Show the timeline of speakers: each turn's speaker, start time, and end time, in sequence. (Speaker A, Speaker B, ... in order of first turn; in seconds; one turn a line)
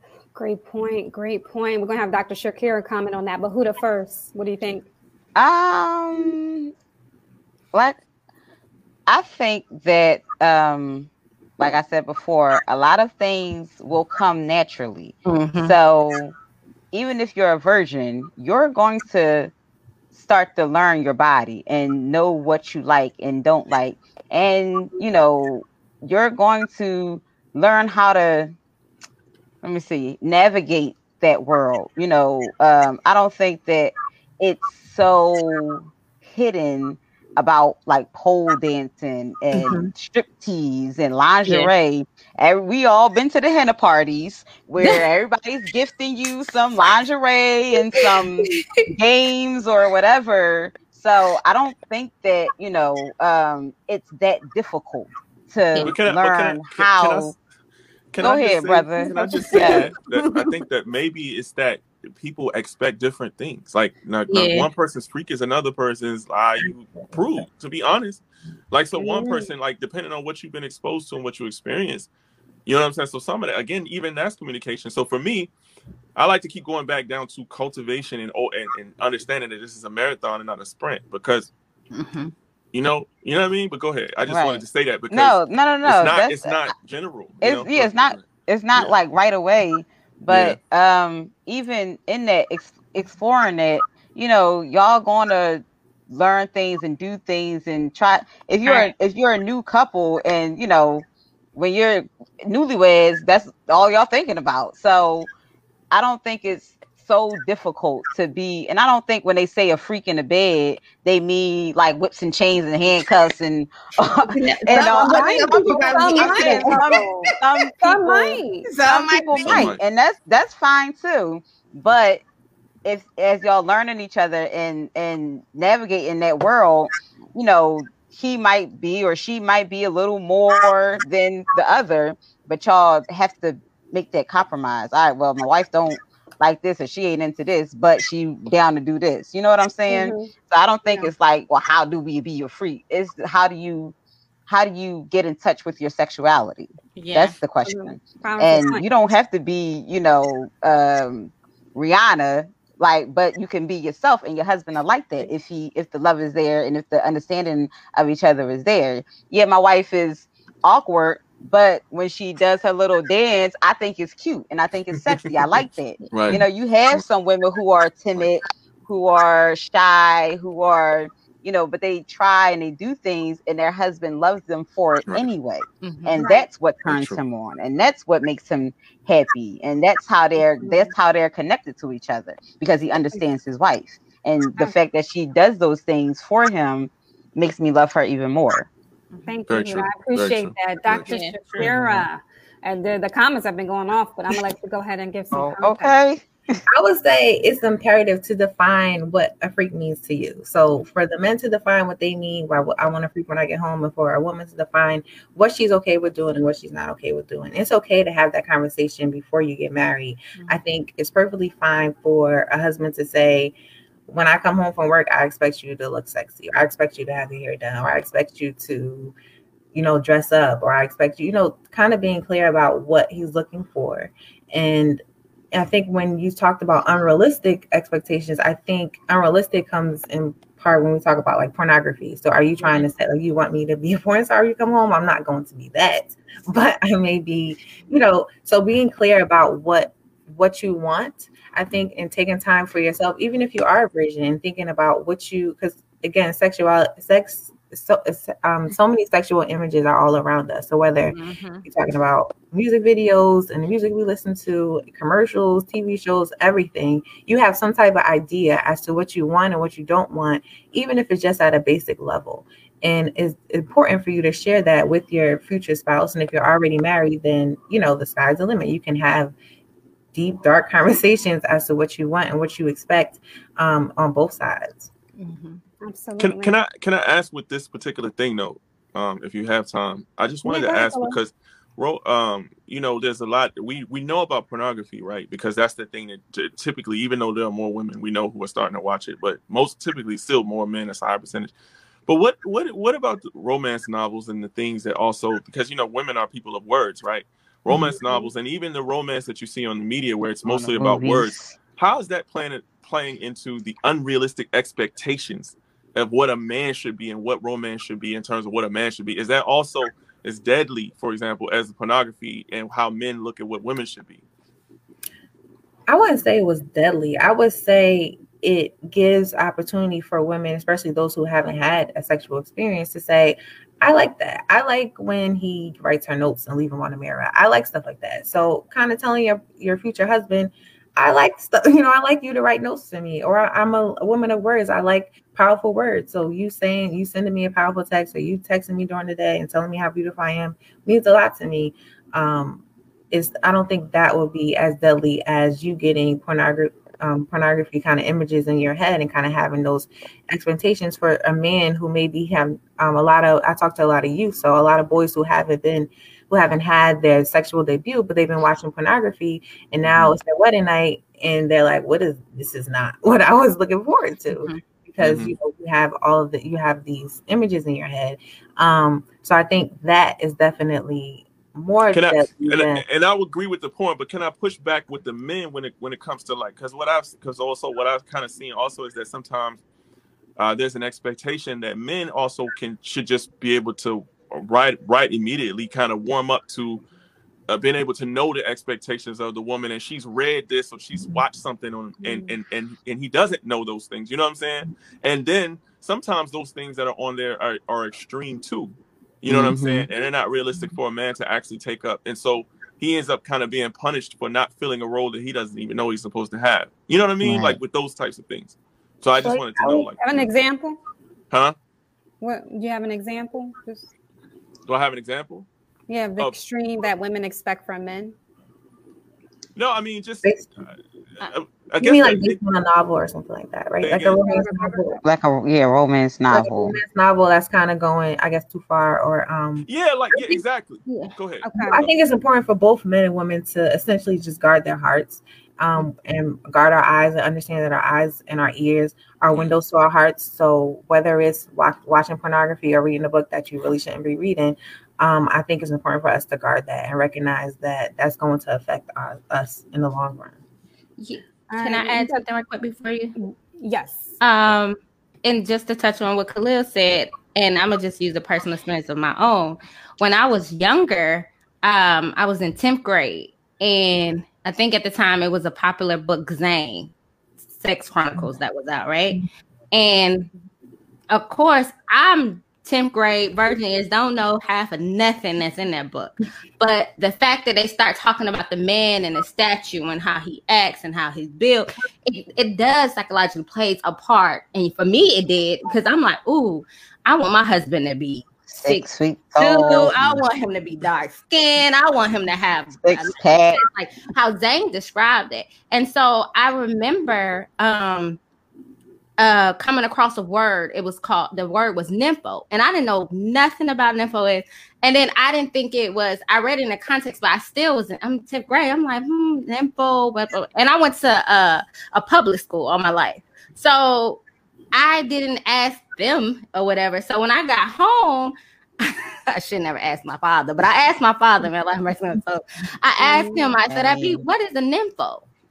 Speaker A: 0.3-4.8
Speaker B: 5.3-6.7
Speaker B: 7.7-8.0
Speaker B: 9.1-16.4
Speaker C: 15.2-15.8
Speaker B: 16.9-19.5
Speaker B: 20.1-28.5
Speaker B: 29.6-57.3
Speaker C: 39.5-39.9
Speaker C: 41.4-41.7
Speaker C: 44.8-45.0
Speaker C: 47.9-48.9
Speaker D: 55.8-57.4
Speaker D: 58.1-72.1
Speaker B: 58.2-59.9
Speaker C: 59.5-60.5
Speaker C: 64.3-64.7
Speaker E: 67.0-67.4
Speaker A: 69.0-69.5
Speaker D: 72.7-75.5
Speaker D: 76.2-81.5
Speaker C: 81.9-82.3
Speaker D: 82.7-88.9
Speaker B: 84.3-86.7
Speaker B: 87.4-105.3
Speaker D: 90.3-90.6
Speaker C: 98.6-98.9
Speaker B: 105.9-122.2
Speaker C: 114.3-117.0
Speaker A: 114.7-117.3
Speaker A: 117.8-118.7
Speaker C: 118.7-119.7
Speaker D: 119.4-119.8
Speaker B: 122.8-143.9
Speaker A: 139.9-140.3
Speaker B: 144.5-188.7
Speaker C: 146.9-147.3
Speaker A: 147.6-148.8
Speaker D: 166.1-167.0
Speaker C: 175.8-176.2
Speaker A: 176.2-176.4
Speaker D: 176.8-177.2
Speaker A: 180.6-180.9
Speaker A: 189.3-195.9
Speaker D: 189.5-191.7
Speaker C: 191.1-191.4
Speaker B: 191.6-192.1
Speaker B: 195.3-196.6
Speaker E: 196.7-213.5
Speaker E: 214.1-219.1
Speaker E: 219.7-225.0
Speaker E: 225.5-269.3
Speaker C: 251.1-251.6
Speaker E: 270.1-274.9
Speaker C: 275.2-275.6
Speaker A: 275.8-276.6
Speaker D: 276.2-291.5
Speaker A: 280.4-281.2
Speaker D: 292.1-314.2
Speaker B: 300.4-301.6
Speaker E: 315.9-372.8
Speaker C: 364.3-364.6
Speaker D: 365.0-365.4
Speaker D: 371.9-379.6
Speaker D: 380.4-386.8
Speaker D: 387.5-410.3
Speaker B: 399.3-399.9
Speaker B: 407.2-407.6
Speaker E: 409.2-409.9
Speaker A: 410.0-410.8
Speaker A: 412.2-413.9
Speaker D: 414.7-415.5
Speaker A: 415.9-418.1
Speaker D: 419.6-422.4
Speaker E: 420.2-420.6
Speaker E: 421.8-425.0
Speaker D: 423.8-424.3
Speaker A: 424.2-425.0
Speaker B: 425.0-426.8
Speaker E: 426.3-429.7
Speaker D: 429.7-431.9
Speaker C: 430.9-431.1
Speaker A: 431.4-431.8
Speaker E: 431.6-450.4
Speaker C: 451.0-453.1
Speaker A: 451.5-452.2
Speaker A: 453.1-454.1
Speaker C: 454.2-466.9
Speaker C: 467.6-470.3
Speaker C: 471.1-488.8
Speaker B: 488.5-490.2
Speaker C: 489.4-498.2
Speaker B: 492.8-493.6
Speaker C: 499.2-514.2
Speaker C: 514.7-525.2
Speaker A: 523.0-523.5
Speaker B: 523.7-524.2